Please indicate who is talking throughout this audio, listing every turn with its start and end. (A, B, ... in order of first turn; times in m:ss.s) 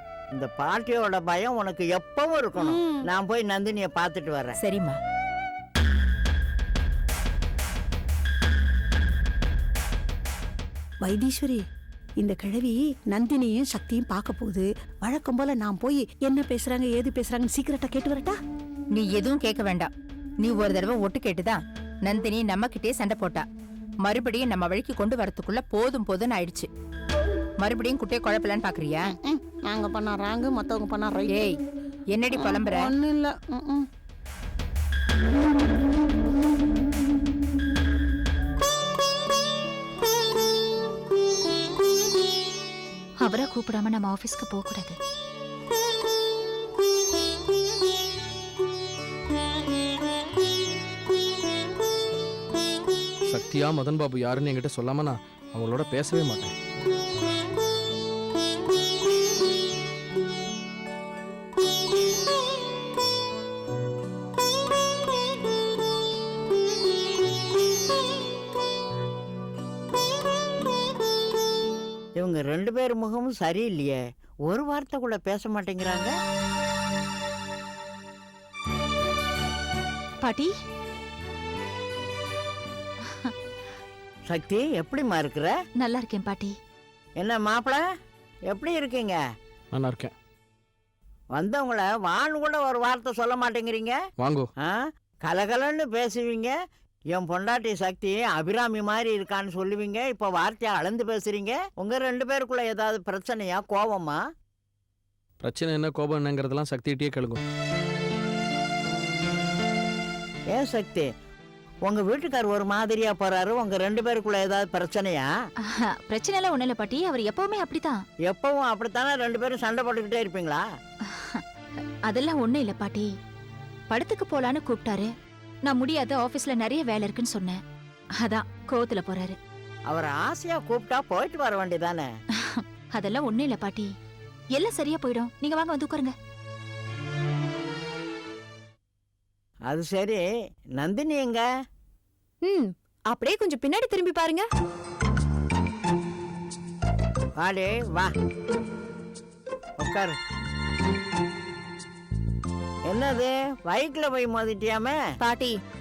0:00.3-0:04.6 A
0:02.6-0:03.0 B
0:04.6-0:05.0 C
0:11.0-0:11.6 B
0:12.2-0:18.4 B
0:18.9-0:19.9 C
0:20.4-0:23.4 C
0:24.0-0:26.7 C
0:27.6-0:29.1 C
0:29.1-0:31.5 B
0:32.1-0:32.9 C
0:32.3-0:33.9 B
0:43.2-0:45.0 D
0:53.3-0:56.5 E
1:12.2-1:16.1 A
1:20.2-1:20.5 D
1:24.3-1:25.5 A
1:25.8-1:26.5 D
1:27.2-1:27.8 A
1:28.5-1:29.2 A
1:29.7-1:30.1 E
1:31.3-1:34.0 A
1:34.2-1:34.5 E
1:34.6-1:36.5 A
1:37.1-1:44.2 A
1:45.4-1:47.4 E
1:50.5-1:51.1 A
1:51.8-1:55.2 A
1:55.6-1:58.0 D
1:58.3-2:00.6 A
2:01.1-2:01.4 D
2:02.1-2:03.1 D
2:03.9-2:05.1 D
2:05.6-2:07.6 D
2:08.2-2:09.4 D
2:09.9-2:12.1 A
2:12.5-2:13.9 D
2:14.5-2:16.1 D
2:19.7-2:20.2 A
2:20.8-2:21.4 A
2:22.4-2:24.4 F
2:27.4-2:28.1 A
2:29.8-2:30.1 A
2:32.9-2:35.0 A
2:35.2-2:35.5 F